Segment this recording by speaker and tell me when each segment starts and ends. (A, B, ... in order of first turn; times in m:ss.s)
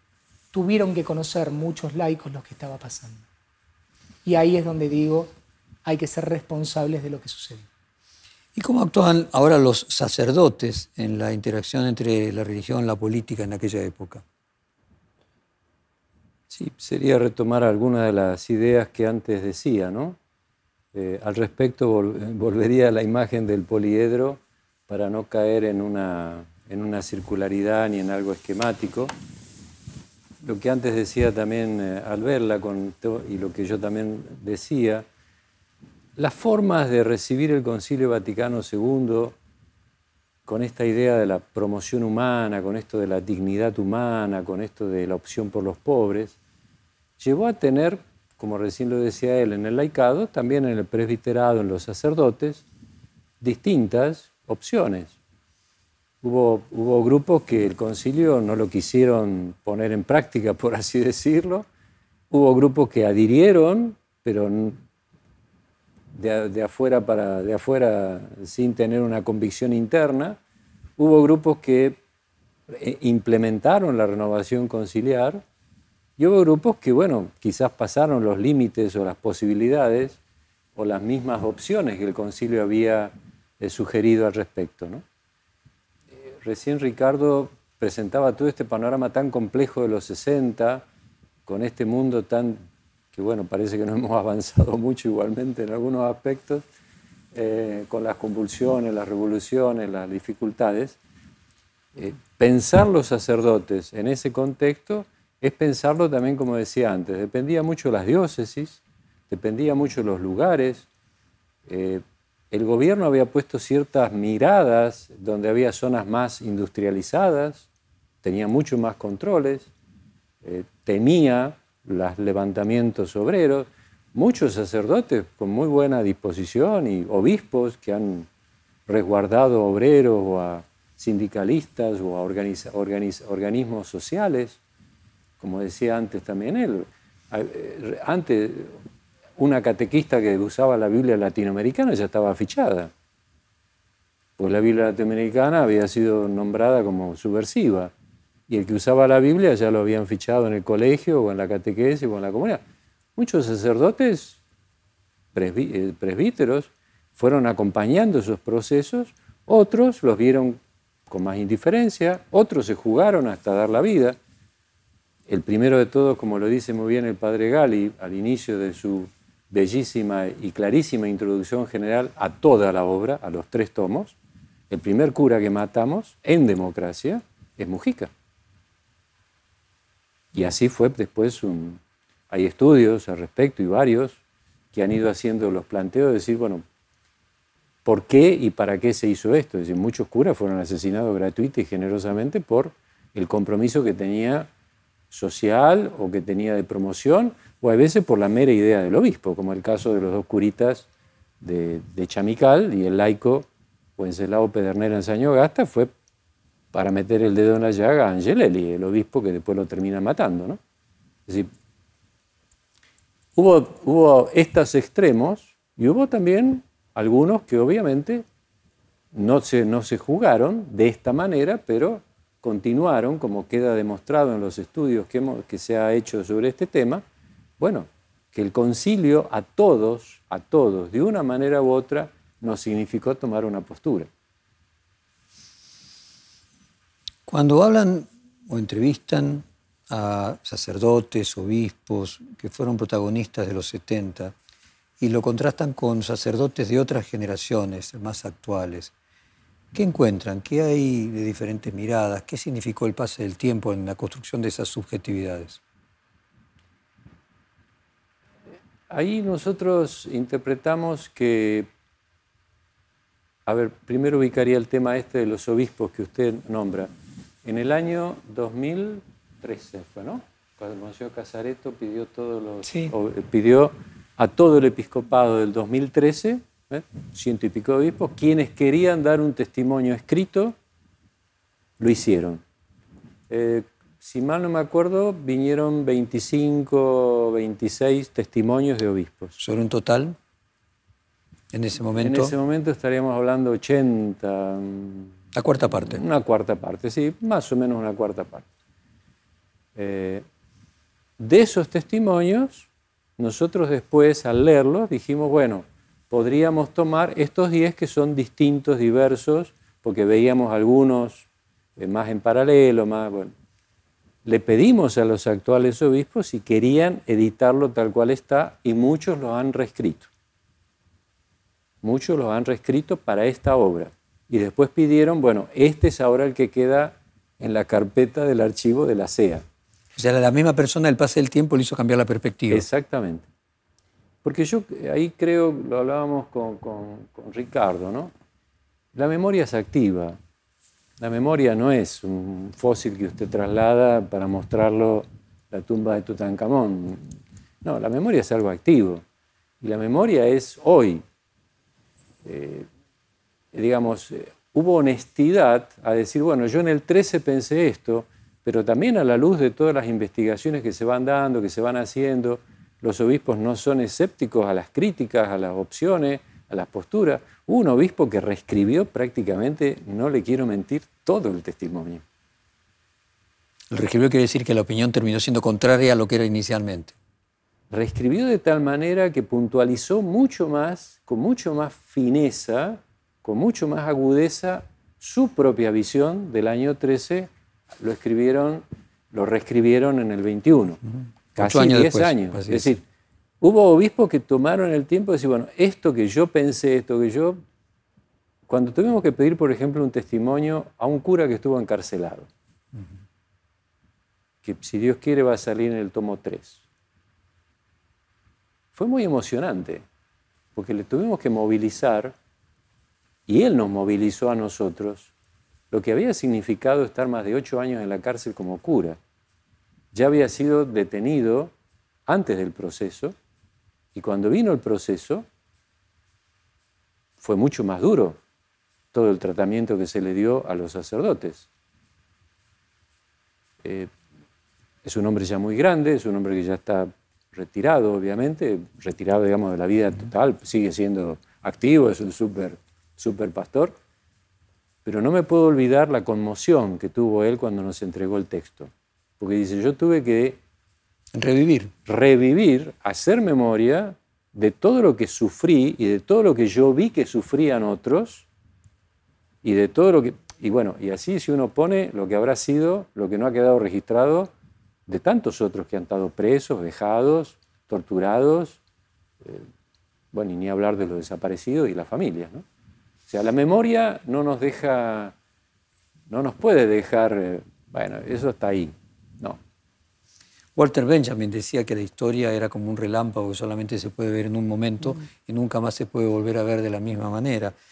0:00.5-0:03.3 A
0:04.2-0:05.3 A
0:05.8-0:07.7 A
0:08.6-0:14.2 B
0:16.5-0:20.2 C
0:20.9-0:29.1 C
0:30.4-0:35.1 C
0:36.2-0:39.4 C
0:40.5-0:46.4 C
0:47.2-0:52.6 C
0:53.4-0:55.1 C
0:56.2-1:01.7 C
1:02.3-1:04.8 C
1:06.1-1:10.4 C
1:11.0-1:12.0 C
1:12.7-1:15.4 C
1:16.2-1:20.2 C
1:20.8-1:25.0 C
1:26.4-1:30.8 C
1:31.5-1:32.6 C
1:33.1-1:36.6 C
1:37.3-1:41.0 C
1:42.0-1:50.9 C
1:51.7-1:57.7 C
1:58.2-1:59.7 C
2:00.4-2:08.3 C
2:08.9-2:14.6 C
2:15.4-2:18.8 C
2:19.4-2:22.9 C
2:24.4-2:27.9 C
2:28.5-2:32.6 C
2:33.2-2:34.4 C
2:35.3-2:44.2 C
2:45.3-2:54.2 C
2:54.7-2:58.1 C
3:00.3-3:04.2 C
3:04.7-3:06.6 C
3:07.8-3:14.5 C
3:15.1-3:20.8 C
3:21.4-3:25.9 C
3:26.7-3:30.6 C
3:33.4-3:38.2 C
3:39.1-3:47.0 C
3:47.6-3:54.1 C
3:57.3-4:04.3 B
4:05.0-4:08.9 B
4:09.7-4:15.6 B
4:18.9-4:21.7 C
4:23.5-4:26.9 C
4:27.4-4:40.6 C
4:32.6-4:32.9 A
4:41.8-4:42.4 C
4:43.3-4:49.4 C
4:49.4-4:50.2 B
4:51.5-4:52.3 B
4:52.0-4:55.1 C
4:55.3-4:56.0 B
4:55.9-4:58.5 C
4:59.8-5:00.2 C
5:01.2-5:02.7 C
5:03.2-5:11.3 C
5:11.8-5:13.3 C
5:14.2-5:20.1 C
5:21.8-5:29.4 C
5:30.0-5:32.7 B
5:32.5-5:33.3 C
5:34.2-5:38.1 C
5:38.9-5:40.2 C
5:41.0-5:47.1 C
5:47.6-5:49.0 C
5:49.6-5:51.0 C
5:52.2-5:52.7 C
5:53.5-6:12.0 C
6:13.7-6:17.0 B
6:17.7-6:30.8 C
6:31.4-6:32.8 C
6:31.4-6:32.8 B
6:33.4-6:37.4 C
6:38.5-6:42.3 C
6:44.4-6:46.6 C
6:48.8-6:49.8 C
6:50.6-6:52.1 C
6:53.3-6:55.1 C
6:55.7-6:59.0 C
6:59.9-7:01.5 C
7:02.1-7:03.2 C
7:04.0-7:05.2 C
7:07.2-7:08.2 C
7:08.9-7:11.5 C
7:13.6-7:13.9 C
7:14.8-7:23.7 C
7:24.8-7:30.4 C
7:31.1-7:31.7 B
7:31.9-7:38.2 C
7:39.4-7:44.3 C
7:44.9-7:48.6 C
7:49.2-7:49.5 C
7:50.1-7:52.4 C
7:53.1-7:55.2 C
7:56.1-7:59.4 C
8:00.6-8:07.6 B